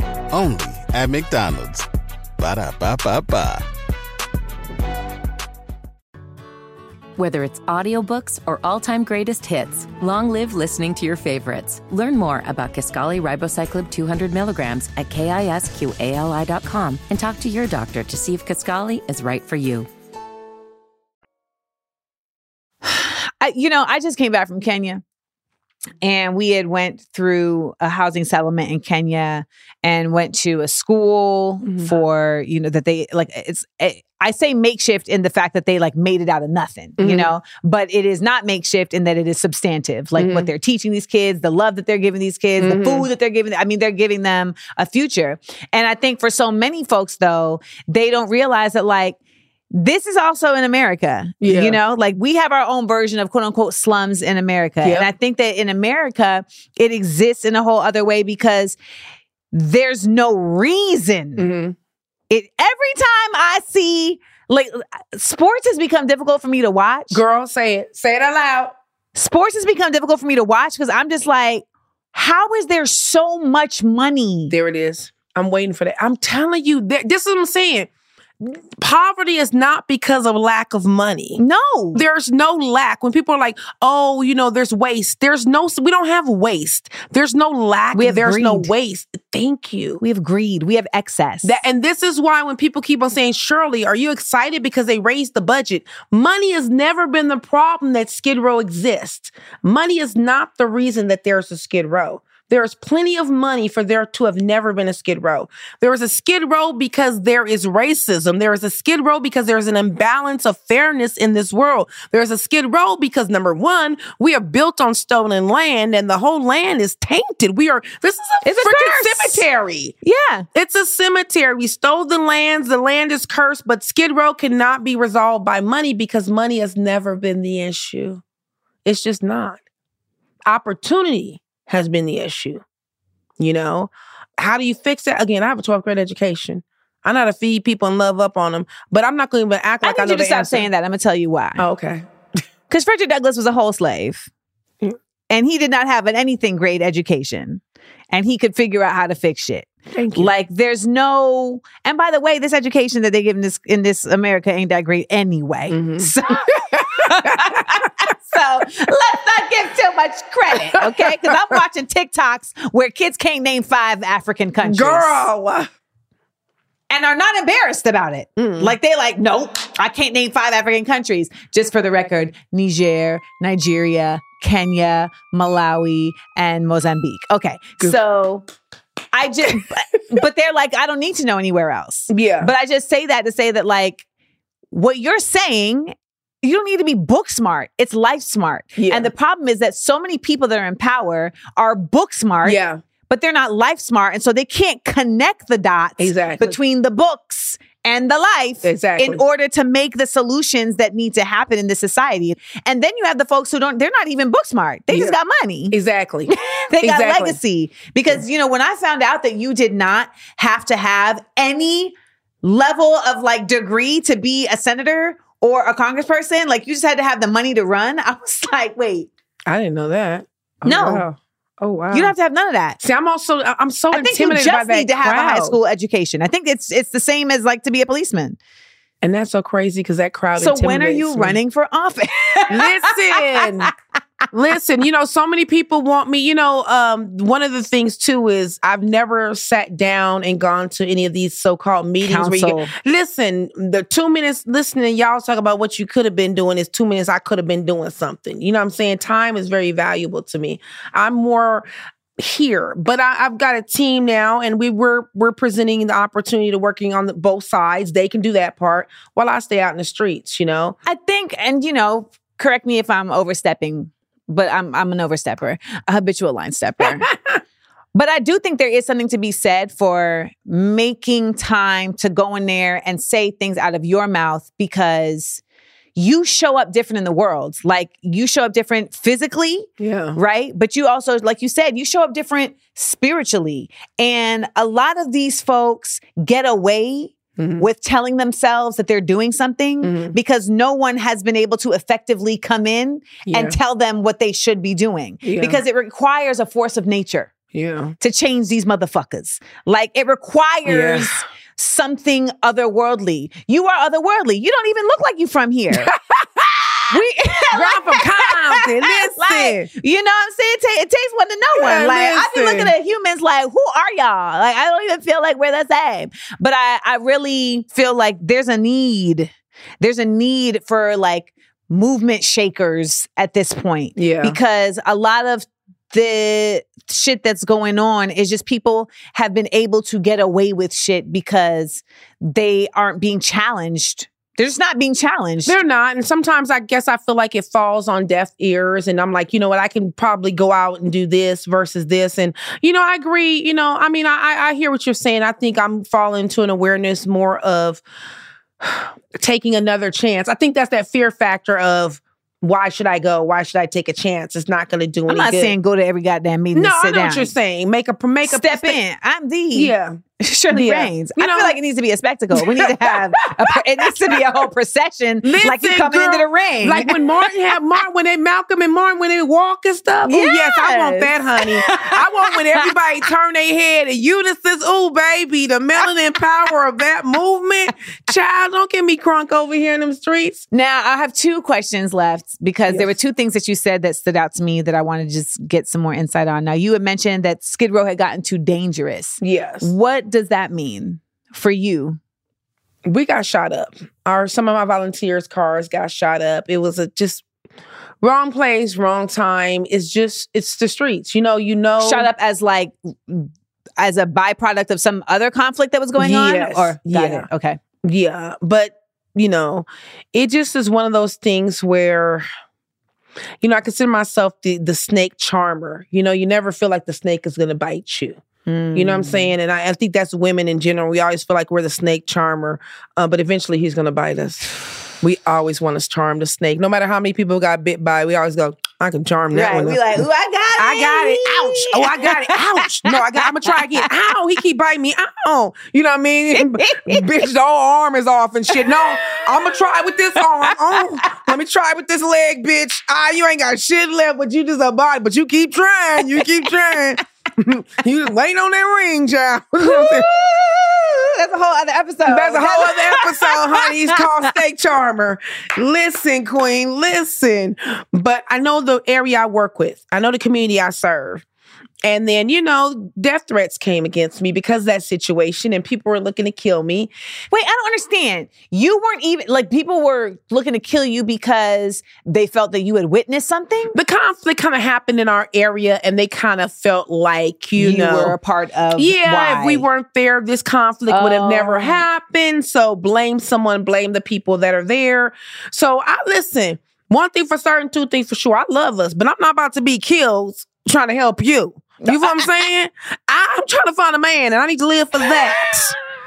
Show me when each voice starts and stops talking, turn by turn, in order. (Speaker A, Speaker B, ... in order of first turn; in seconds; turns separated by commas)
Speaker A: 0.3-1.9, Speaker A: 2.4-3.7, Speaker B: 7.2-19.9, Speaker C: 22.8-25.0, Speaker C: 26.0-49.2, Speaker D: 31.6-31.9, Speaker D: 37.0-37.3, Speaker D: 40.2-40.5, Speaker D: 42.6-43.1, Speaker C: 49.7-58.8, Speaker D: 51.4-51.8, Speaker D: 54.8-55.1, Speaker C: 59.5-61.4, Speaker D: 61.4-61.8, Speaker C: 62.3-67.2, Speaker D: 67.1-68.7, Speaker C: 69.1-74.5, Speaker D: 74.5-77.9, Speaker D: 78.4-81.4, Speaker C: 81.4-82.0, Speaker D: 81.9-90.0, Speaker C: 87.9-88.7, Speaker C: 90.0-91.6, Speaker D: 91.4-119.9, Speaker C: 118.4-119.4, Speaker C: 120.0-120.5, Speaker D: 120.5-128.2, Speaker D: 128.8-129.6, Speaker D: 130.4-132.6, Speaker D: 133.4-140.7, Speaker C: 139.8-141.6, Speaker D: 141.6-142.1, Speaker C: 142.7-144.3, Speaker C: 145.3-147.6, Speaker C: 148.1-165.3, Speaker D: 149.9-150.3, Speaker D: 155.7-158.1, Speaker D: 160.8-161.6, Speaker D: 164.6-165.7, Speaker C: 166.9-178.4, Speaker D: 168.4-168.8, Speaker C: 179.1-184.0, Speaker D: 182.1-182.5, Speaker C: 184.7-192.6, Speaker D: 188.8-189.1, Speaker D: 192.4-192.8, Speaker C: 193.1-205.8, Speaker D: 196.0-196.5, Speaker D: 198.6-199.2, Speaker D: 204.9-205.2, Speaker D: 205.7-207.4, Speaker C: 206.3-219.1, Speaker D: 219.4-222.1, Speaker C: 220.7-221.0, Speaker C: 221.9-222.8, Speaker D: 222.8-225.6, Speaker C: 223.9-228.4, Speaker D: 229.0-231.4, Speaker C: 230.3-233.7, Speaker D: 232.5-233.7, Speaker D: 234.3-251.7, Speaker C: 242.0-242.7, Speaker D: 252.2-260.8, Speaker C: 260.8-267.1, Speaker D: 266.8-267.4, Speaker C: 267.9-275.4, Speaker C: 275.9-297.3, Speaker D: 279.8-280.2, Speaker D: 287.4-287.7, Speaker D: 289.8-290.1, Speaker D: 293.2-293.6, Speaker D: 295.2-295.6, Speaker D: 297.5-298.0, Speaker C: 298.0-305.9, Speaker D: 300.7-301.2, Speaker D: 305.7-307.0, Speaker C: 306.9-335.6, Speaker D: 307.5-309.7, Speaker D: 311.6-312.7, Speaker D: 323.9-324.4, Speaker D: 335.4-347.8, Speaker D: 348.6-355.5, Speaker C: 355.1-357.3, Speaker D: 356.5-358.8, Speaker C: 358.2-367.2, Speaker D: 359.5-360.0, Speaker D: 360.5-361.5, Speaker D: 362.4-364.2, Speaker D: 365.2-380.4, Speaker C: 370.1-372.7, Speaker C: 380.5-392.0, Speaker D: 389.2-389.7, Speaker D: 392.8-397.2, Speaker D: 398.0-402.1, Speaker C: 401.8-407.6, Speaker D: 406.0-407.3, Speaker D: 407.8-412.3, Speaker D: 413.4-418.2, Speaker C: 418.4-419.3, Speaker D: 418.7-430.0, Speaker C: 429.3-433.9, Speaker D: 430.6-450.1, Speaker C: 436.3-437.2, Speaker C: 438.5-441.3, Speaker C: 446.1-446.8, Speaker C: 449.6-454.3, Speaker D: 452.1-461.2, Speaker D: 461.8-466.9, Speaker C: 467.3-473.7, Speaker D: 473.7-478.1, Speaker C: 477.6-479.6, Speaker D: 478.8-495.7, Speaker C: 480.9-481.9, Speaker C: 491.8-492.4, Speaker C: 495.0-495.7